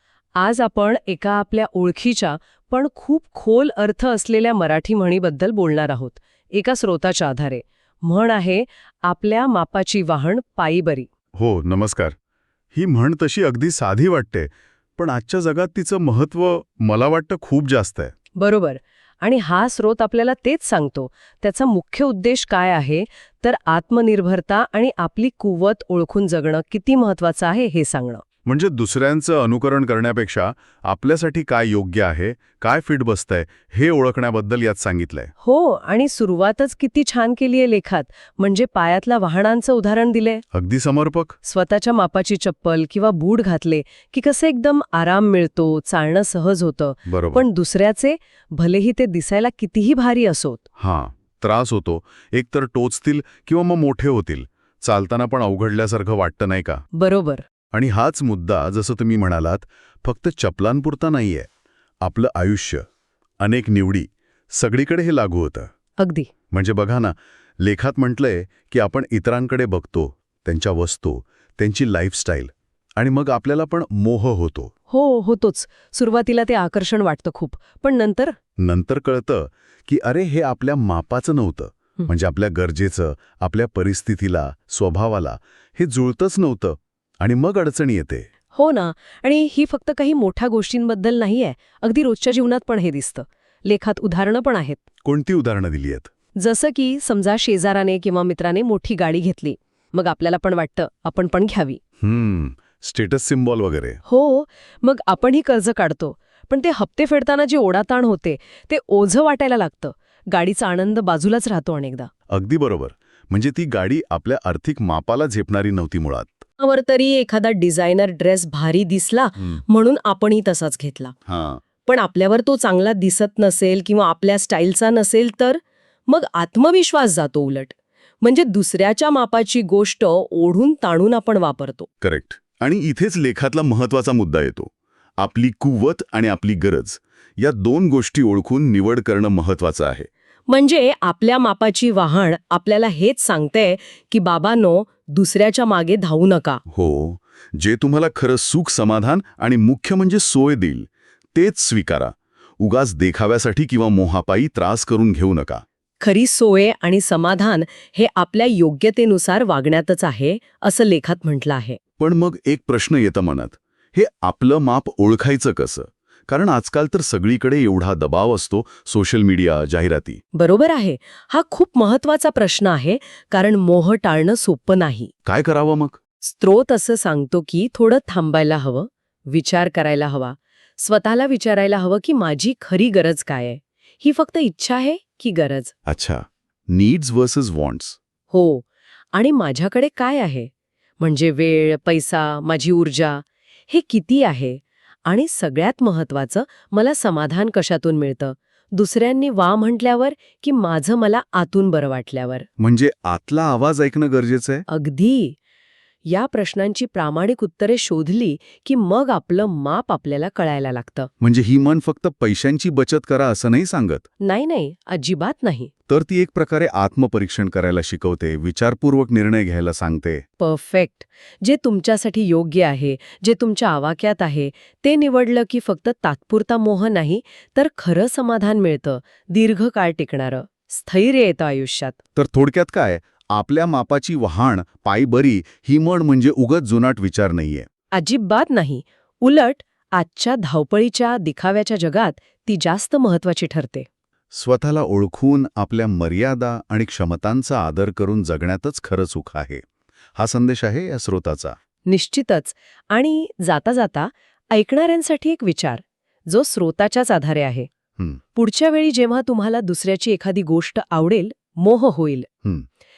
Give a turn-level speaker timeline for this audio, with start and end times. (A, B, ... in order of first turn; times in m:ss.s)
0:00.4-0:11.1 A
0:11.4-0:12.2 B
0:12.7-0:18.1 B
0:18.4-0:28.2 A
0:28.4-0:35.3 B
0:35.4-0:40.4 A
0:40.5-0:41.4 B
0:41.4-0:50.6 A
0:47.1-0:47.4 B
0:50.8-0:56.8 B
0:57.0-0:57.4 A
0:57.7-1:01.5 B
1:02.0-1:02.8 B
1:03.4-1:05.7 B
1:06.0-1:06.3 A
1:06.5-1:14.7 B
1:14.9-1:18.4 A
1:18.6-1:28.2 B
1:28.5-1:34.8 A
1:35.0-1:36.1 B
1:36.4-1:41.8 A
1:42.0-1:44.0 B
1:44.0-1:52.1 A
1:52.3-1:56.4 B
1:56.6-2:01.1 A
2:01.3-2:01.6 B
2:01.8-2:11.9 A
2:12.0-2:20.1 B
2:20.5-2:26.6 A
2:26.7-2:35.6 B
2:36.0-2:41.8 A
2:42.0-2:50.2 B
2:50.3-2:55.1 A
2:55.2-2:56.0 B
2:56.2-3:05.7 A
3:05.9-3:08.0 B
3:08.3-3:22.5 A
3:22.6-3:24.6 B
3:24.7-3:25.4 A
3:26.0-3:31.1 A
3:31.2-3:34.0 B
3:34.2-3:35.7 A
3:35.9-3:40.2 B
3:40.4-3:52.0 A
3:52.2-3:57.7 B
3:57.9-4:03.9 A
4:04.3-4:09.6 B
4:10.2-4:11.6 B
4:11.9-4:17.7 A
4:18.3-4:22.3 A